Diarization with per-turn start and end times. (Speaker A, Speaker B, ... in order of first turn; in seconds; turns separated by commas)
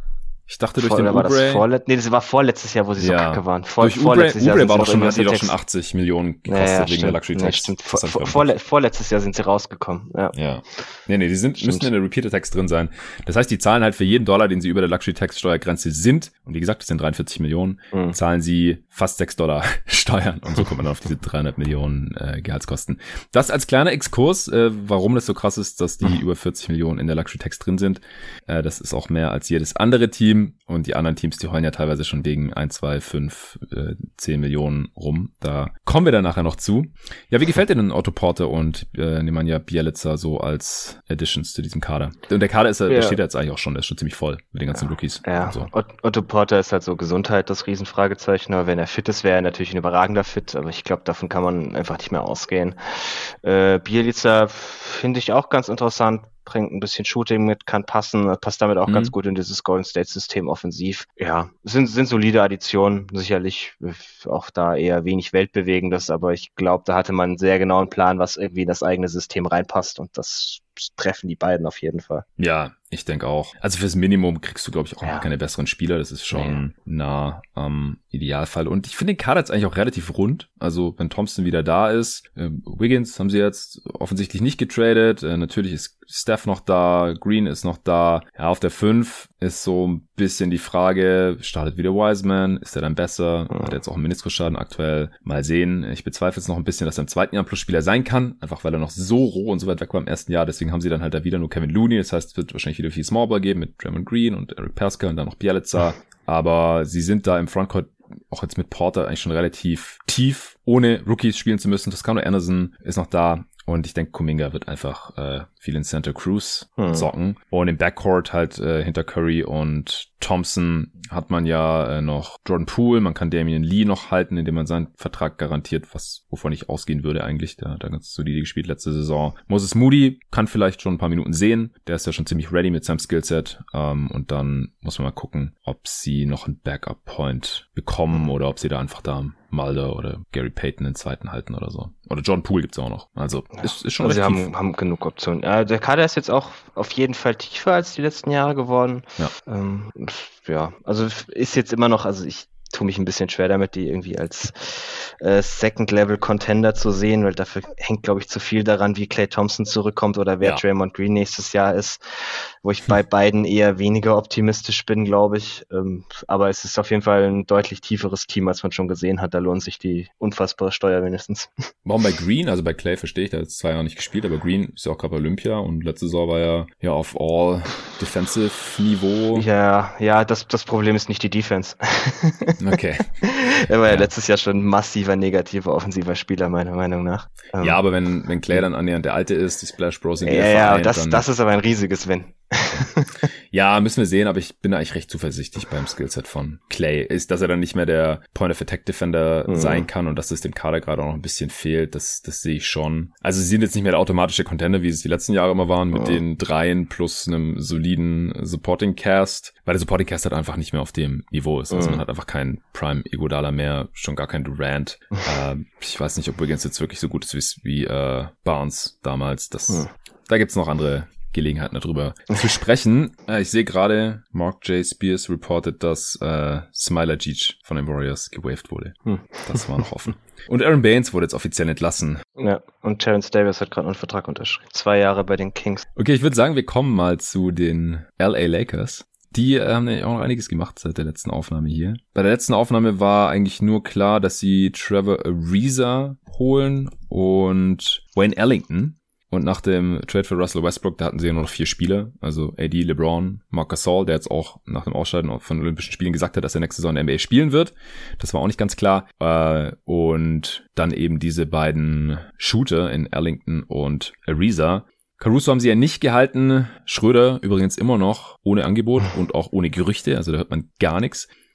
Speaker A: 0.5-1.7, Speaker B: 0.8-5.5, Speaker A: 3.0-8.5, Speaker B: 6.5-10.3, Speaker A: 10.3-45.7, Speaker B: 11.6-11.9, Speaker B: 42.9-43.2, Speaker B: 44.7-72.2, Speaker A: 58.9-59.1, Speaker A: 72.4-144.5, Speaker B: 76.3-76.6, Speaker B: 116.8-117.1, Speaker B: 143.6-171.5, Speaker A: 171.8-179.5, Speaker B: 179.3-182.6, Speaker A: 182.6-183.1, Speaker B: 183.2-187.8, Speaker A: 187.6-191.2, Speaker B: 190.2-193.2, Speaker A: 193.5-232.2, Speaker B: 199.5-199.9, Speaker B: 205.9-206.2, Speaker B: 211.7-212.0, Speaker B: 229.1-229.8, Speaker B: 232.4-235.8, Speaker A: 236.0-271.3